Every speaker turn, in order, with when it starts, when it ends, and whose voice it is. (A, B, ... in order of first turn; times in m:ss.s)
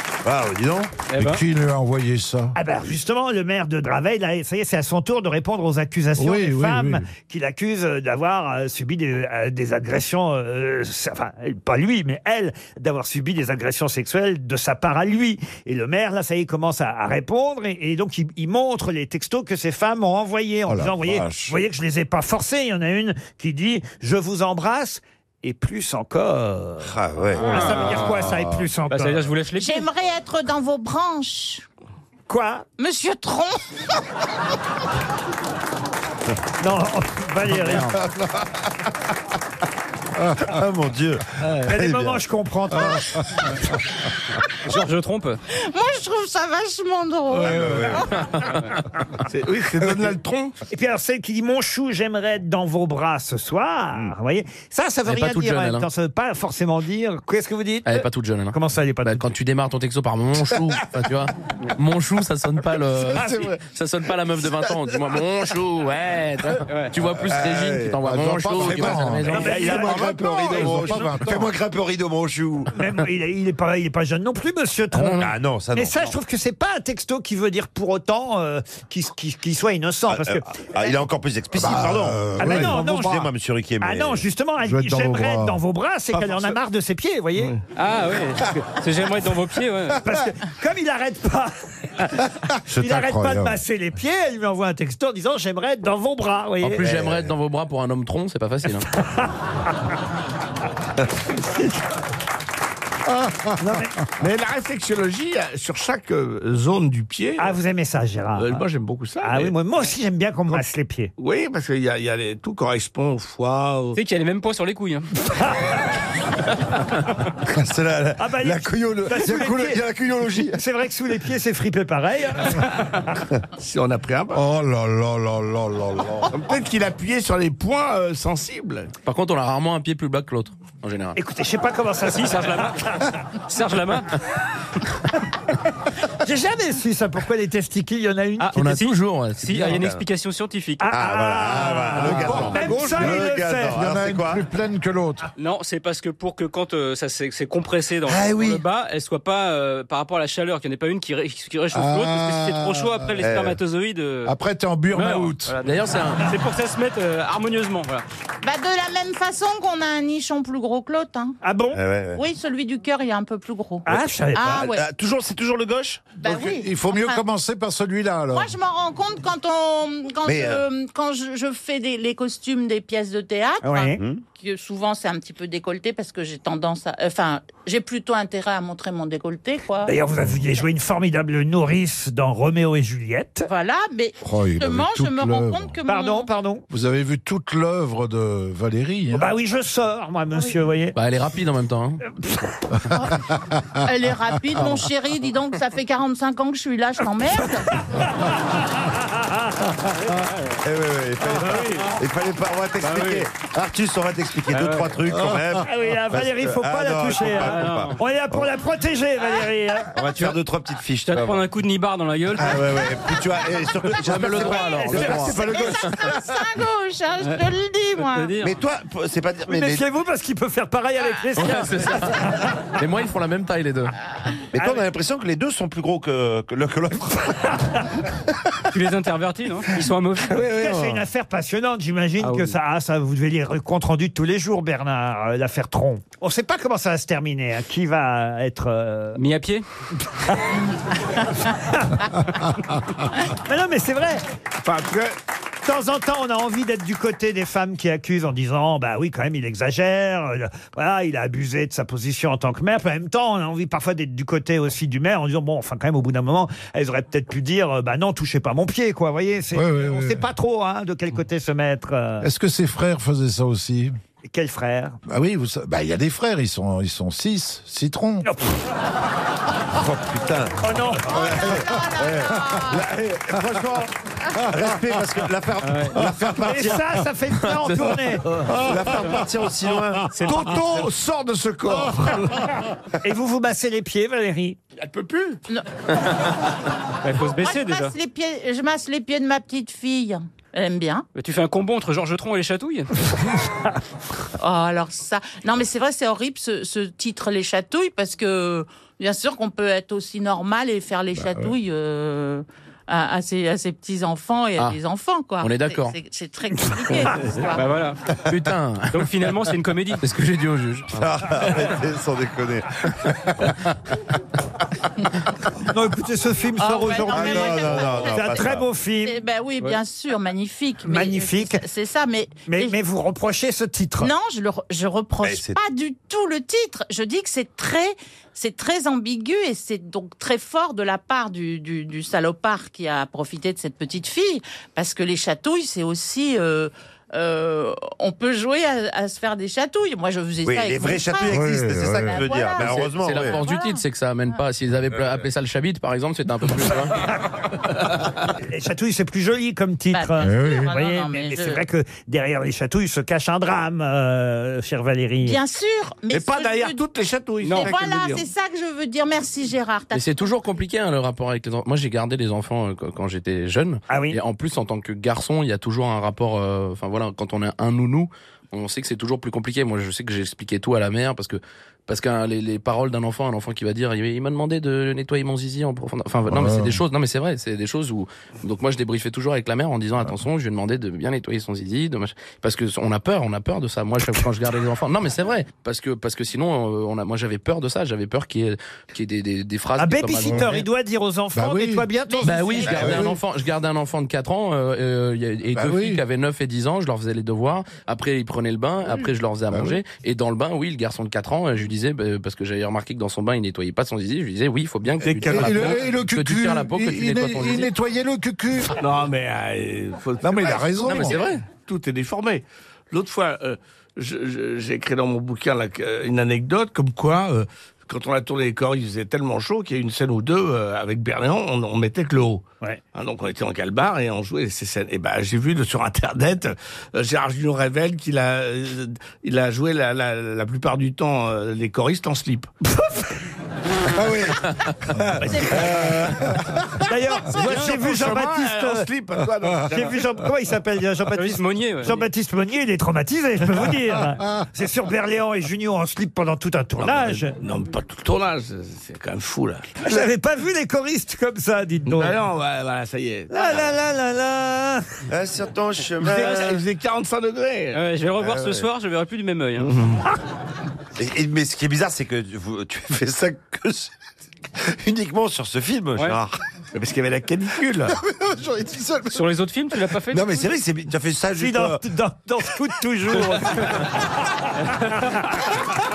0:00.2-0:00.9 A
0:01.1-0:01.4 B
0:01.2-0:02.6 C
0:02.6-0:29.2 D
0:06.2-0:07.1 C
0:20.7-0:21.6 C
0:26.8-0:28.1 A
0:27.4-0:27.8 B
0:27.7-0:28.7 C
0:28.9-0:29.9 B
0:29.6-0:31.6 E
0:32.3-0:32.7 D
0:32.8-0:33.6 E
0:36.6-0:38.0 D
0:37.8-0:38.6 A
0:40.4-0:42.2 A
0:41.6-0:43.2 D
0:44.7-0:45.4 B
0:45.6-0:48.1 E
0:47.4-0:48.1 A
0:47.4-0:47.9 C
0:49.3-0:50.6 F
0:50.7-0:59.2 D
0:55.1-0:55.9 G
0:57.8-1:09.7 G
1:03.2-1:03.5 D
1:06.7-1:06.9 B
1:07.2-1:08.0 A
1:08.0-1:11.5 C
1:08.5-1:12.8 A
1:09.3-1:11.1 D
1:12.8-1:20.4 D
1:15.0-1:15.3 G
1:15.2-1:16.2 A
1:20.1-1:24.3 A
1:21.6-1:22.8 C
1:22.4-1:23.3 D
1:23.8-1:27.5 D
1:24.6-1:25.6 C
1:26.1-1:26.6 F
1:27.4-1:27.6 F
1:27.8-1:30.0 B
1:30.0-1:32.0 D
1:32.7-1:33.6 C
1:32.7-1:36.9 D
1:36.6-1:38.9 G
1:36.8-1:37.3 A
1:43.6-1:44.0 D
1:44.2-1:47.5 F
1:47.4-1:48.6 D
1:48.4-1:49.5 F
1:49.2-1:51.1 D
1:51.2-1:54.0 F
1:54.0-1:55.1 B
1:57.4-2:00.6 A
1:58.2-1:59.8 D
2:00.5-2:03.0 D
2:03.6-2:04.4 F
2:04.3-2:06.4 C
2:06.3-2:08.9 F
2:09.0-2:11.2 G
2:11.2-2:13.0 D
2:12.1-2:12.9 B
2:13.5-2:14.1 B
2:16.2-2:18.6 D
2:18.4-2:20.9 B
2:18.5-2:19.9 G
2:19.7-2:20.0 A
2:20.8-2:23.8 D
2:20.9-2:24.4 A
2:22.0-2:25.3 C
2:25.4-2:34.3 B
2:28.1-2:28.6 A
2:31.7-2:33.1 C
2:33.2-2:33.6 A
2:34.2-2:35.5 C
2:34.9-2:38.0 B
2:35.6-2:36.3 G
2:38.4-2:41.4 E
2:41.4-2:41.8 D
2:41.7-2:42.2 A
2:42.2-2:44.9 E
2:43.9-2:44.7 D
2:44.4-2:46.2 A
2:46.2-2:47.2 E
2:46.2-2:48.5 C
2:48.3-2:59.9 E
2:50.2-2:50.6 A
2:53.6-2:54.0 D
2:54.0-2:54.2 A
2:59.9-3:03.5 D
3:03.5-3:06.3 E
3:04.2-3:05.8 C
3:05.9-3:06.6 D
3:06.7-3:09.3 C
3:09.1-3:11.0 D
3:11.0-3:12.0 G
3:12.2-3:12.4 D
3:13.8-3:17.8 E
3:19.0-3:19.4 D
3:20.6-3:28.5 A
3:21.4-3:21.7 B
3:22.8-3:23.3 B
3:24.5-3:25.0 B
3:25.6-3:30.0 D
3:27.3-3:28.0 B
3:30.0-3:31.4 A
3:31.1-3:32.8 B
3:32.4-3:36.5 A
3:33.9-3:36.0 G
3:34.4-3:38.3 E
3:37.2-3:38.6 B
3:38.4-3:39.8 A
3:39.5-3:42.5 D
3:41.4-3:43.9 G
3:44.5-3:47.6 A
3:44.6-3:44.8 D
3:48.7-3:50.4 B
3:50.4-3:51.0 F
3:50.5-3:59.2 D
3:52.2-3:52.5 B
3:59.2-3:59.6 B
4:01.6-4:02.1 D
4:03.3-4:04.2 D
4:04.6-4:05.2 F
4:05.6-4:22.3 D
4:19.5-4:20.3 C
4:22.2-4:24.0 C
4:24.2-4:25.0 D
4:25.1-4:28.3 C
4:28.2-4:28.5 D
4:29.7-4:37.0 A
4:30.6-4:31.3 D
4:31.1-4:32.9 E
4:35.6-4:36.0 B
4:36.3-4:38.3 D
4:37.5-4:37.9 G
4:38.4-4:40.1 A
4:40.1-4:40.6 B
4:40.2-4:42.4 F
4:43.0-4:44.6 D
4:44.8-4:45.4 F
4:47.0-4:47.9 B
4:47.3-4:51.1 E
4:51.2-4:52.9 B
4:54.4-5:07.7 E
5:01.2-5:01.5 C
5:05.4-5:06.0 G
5:07.5-5:08.0 B
5:08.3-5:09.1 G
5:08.9-5:10.0 B
5:10.0-5:11.1 G
5:10.9-5:13.5 A
5:15.7-5:19.2 D
5:16.6-5:22.8 E
5:17.0-5:18.7 A
5:20.8-5:21.6 D
5:22.5-5:24.1 D
5:24.0-5:43.8 E
5:25.2-5:25.6 A
5:40.4-5:43.4 A
5:41.3-5:42.2 C
5:42.6-5:47.1 G
5:48.4-5:55.4 D
5:49.9-5:51.6 E
5:50.2-5:50.7 C
5:55.2-5:56.8 E
5:56.1-5:58.3 F
5:57.4-5:57.8 B
5:57.5-6:00.4 E
5:59.9-6:30.6 G
6:03.9-6:04.2 D
6:16.3-6:16.8 C
6:29.8-6:32.8 D
6:31.3-6:31.9 C
6:32.1-6:33.1 E
6:32.2-6:47.7 G
6:32.7-6:33.2 C
6:35.5-6:36.0 C
6:39.5-6:39.8 C
6:45.0-6:45.8 F
6:45.2-6:48.7 C
6:48.8-7:12.5 F
6:50.2-6:51.2 C
6:50.8-6:51.4 G
7:12.7-7:13.1 D
7:14.0-7:14.3 C
7:15.2-7:16.1 F
7:15.4-7:15.7 E
7:16.9-7:18.9 D
7:17.3-7:20.1 F
7:17.5-7:17.7 B
7:19.7-7:27.4 D
7:21.2-7:22.1 B
7:26.8-7:30.0 F
7:29.8-7:32.2 D
7:31.9-7:33.7 F
7:33.3-7:34.9 D
7:35.1-7:36.6 A
7:36.0-7:37.8 F
7:37.7-7:39.7 B
7:38.2-7:38.6 A
7:39.6-7:40.0 F
7:41.0-7:43.9 A
7:44.6-7:46.4 A
7:46.8-7:48.0 F
7:48.4-7:49.2 C
7:49.1-7:50.5 B
7:50.1-7:51.8 A
7:51.4-7:53.9 D